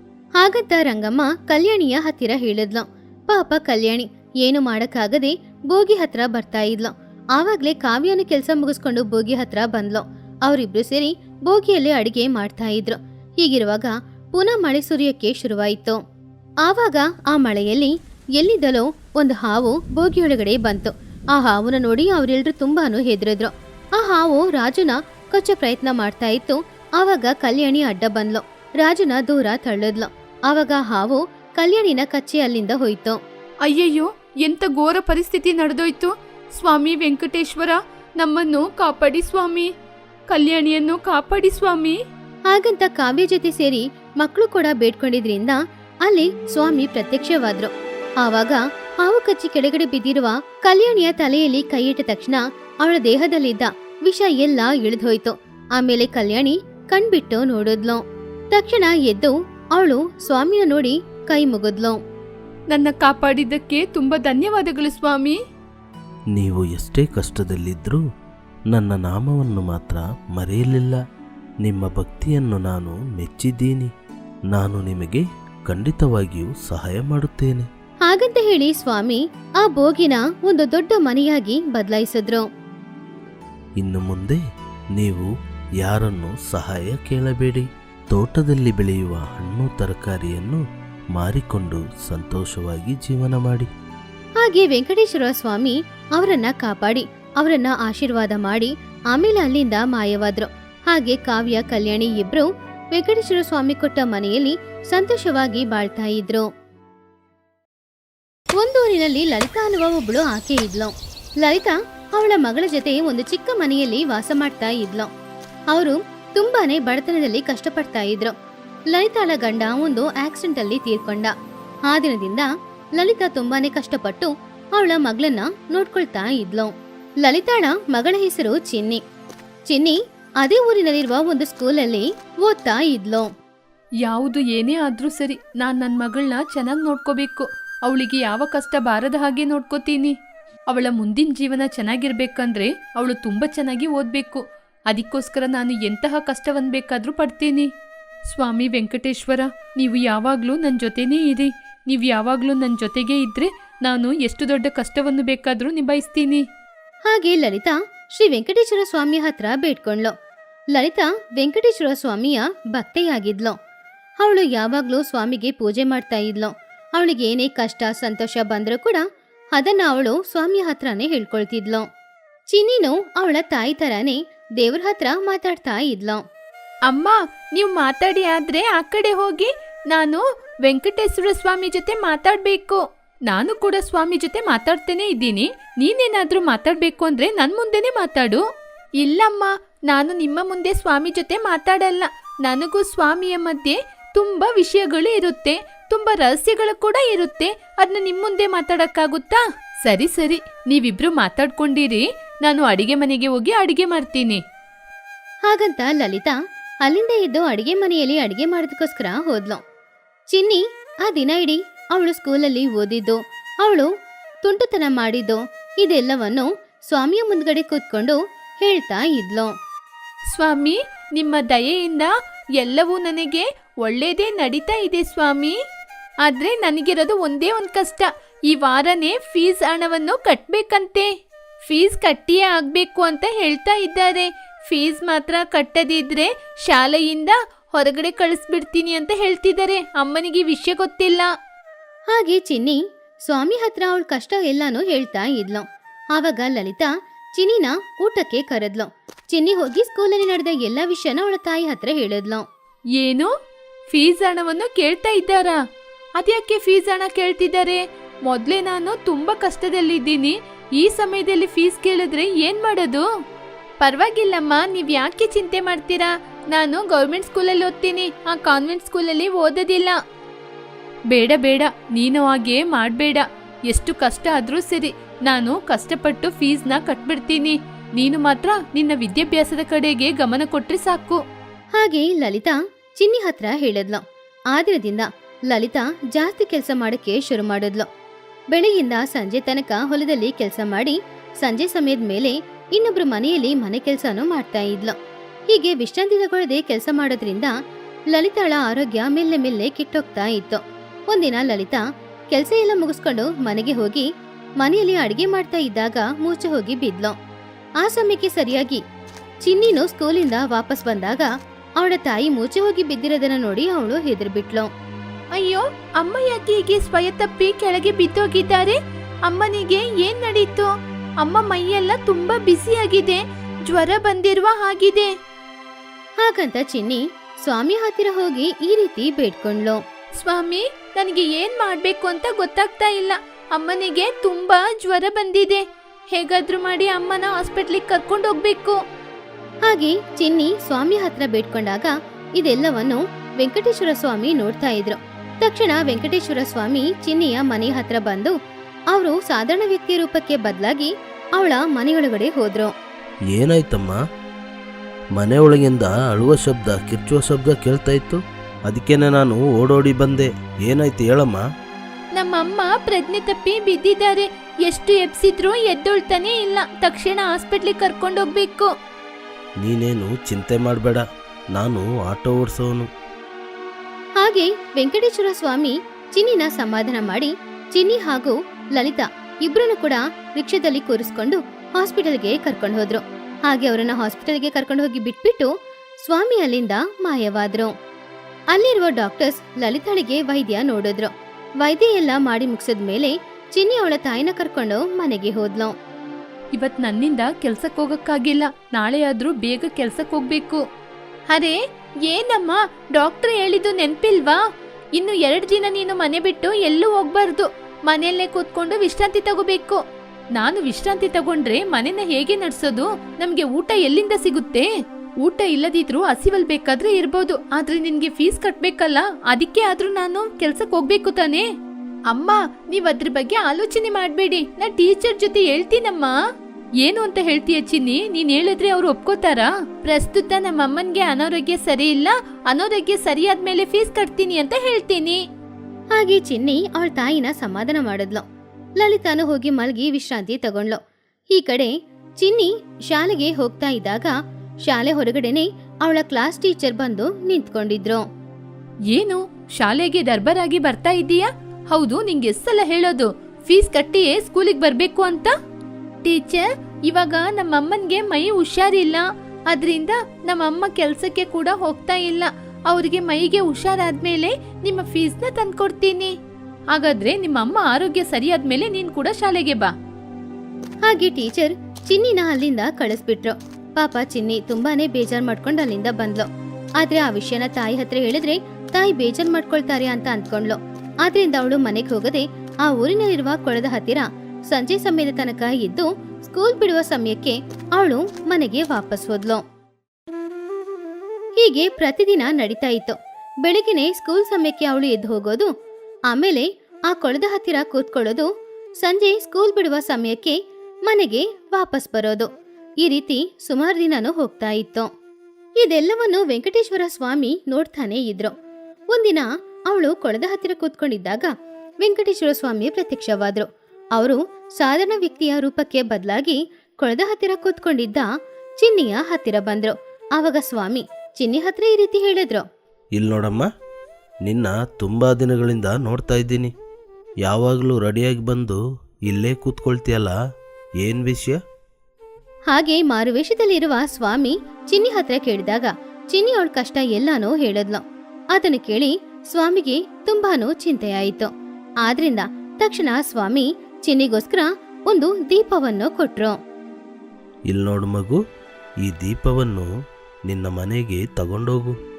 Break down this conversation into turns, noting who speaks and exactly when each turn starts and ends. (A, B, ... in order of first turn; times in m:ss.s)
0:00.4-0:16.0 A
0:16.6-0:33.2 A
0:33.6-0:39.7 B
0:40.3-0:42.0 B
0:42.5-0:58.0 A
0:58.5-1:02.0 A
1:02.7-1:05.4 B
1:06.3-1:08.0 C
1:08.7-1:11.0 C
1:11.6-1:13.9 C
1:14.5-1:17.7 C
1:18.1-1:22.5 A
1:23.8-1:24.4 C
1:25.0-1:25.3 C
1:25.8-1:30.6 C
1:31.2-1:33.7 C
1:34.4-1:46.5 A
1:48.6-1:50.9 A
1:51.4-1:55.1 A
1:55.7-1:58.3 A
1:58.9-2:01.3 A
2:01.9-2:06.7 A
2:07.2-2:09.0 A
2:09.7-2:13.3 A
2:14.0-2:20.1 B
2:20.7-2:27.7 B
2:28.3-2:36.4 B
2:37.1-2:40.1 A
2:40.8-2:43.6 A
2:44.2-2:49.0 A
2:49.6-2:51.8 A
2:52.5-2:56.2 A
2:56.9-3:08.4 B
3:09.0-3:24.4 B
3:25.5-3:26.4 A
3:26.9-3:29.6 A
3:30.3-3:33.9 A
3:34.4-3:39.5 A
3:40.3-3:45.6 B
3:46.2-3:51.1 B
3:51.6-4:01.3 B
4:02.1-4:12.4 A
4:13.0-4:13.3 B
4:13.9-4:15.6 B
4:16.2-4:23.0 B
4:23.8-4:30.0 B
4:31.1-4:41.2 B
4:41.8-4:44.0 A
4:44.5-4:47.9 A
4:48.5-4:55.0 A
4:55.5-4:57.5 A
4:58.1-5:01.8 A
5:02.3-5:04.1 A
5:04.6-5:07.1 A
5:07.8-5:08.8 A
5:09.4-5:11.3 A
5:11.8-5:14.7 A
5:15.4-5:20.7 B
5:21.2-5:25.1 B
5:26.2-5:29.8 A
5:30.2-5:38.8 B
5:39.7-5:48.4 A
5:48.9-5:52.7 A
5:53.3-5:54.0 C
5:55.2-6:01.4 C
6:02.2-6:08.7 B
6:09.6-6:12.9 C
6:14.2-6:25.5 A
6:26.0-6:27.7 A
6:28.5-6:31.1 A
6:31.6-6:35.7 A
6:36.6-6:40.6 B
6:41.3-6:44.4 B
6:45.0-6:49.8 B
6:50.4-6:54.7 B
6:55.2-7:01.5 B
7:02.1-7:06.1 B
7:06.8-7:15.2 B
7:16.0-7:18.2 A
7:18.8-7:20.8 A
7:21.3-7:24.1 A
7:24.7-7:28.0 A
7:28.9-7:35.3 B
7:36.0-7:46.1 B
7:46.7-7:49.7 B
7:50.9-7:56.3 A
7:56.8-8:09.4 A
8:11.4-8:15.5 A
8:16.1-8:18.3 A
8:18.8-8:20.4 A
8:20.9-8:22.3 A
8:22.8-8:24.9 A
8:25.6-8:28.3 A
8:28.9-8:31.3 A
8:31.8-8:38.1 A
8:38.6-8:42.5 A
8:43.0-8:43.5 C
8:44.2-8:46.5 C
8:47.2-8:50.2 C
8:50.8-8:51.4 C
8:52.5-8:57.8 A
8:58.3-9:01.3 A
9:01.8-9:06.4 A
9:07.5-9:08.2 C
9:08.8-9:09.7 C
9:10.3-9:11.7 C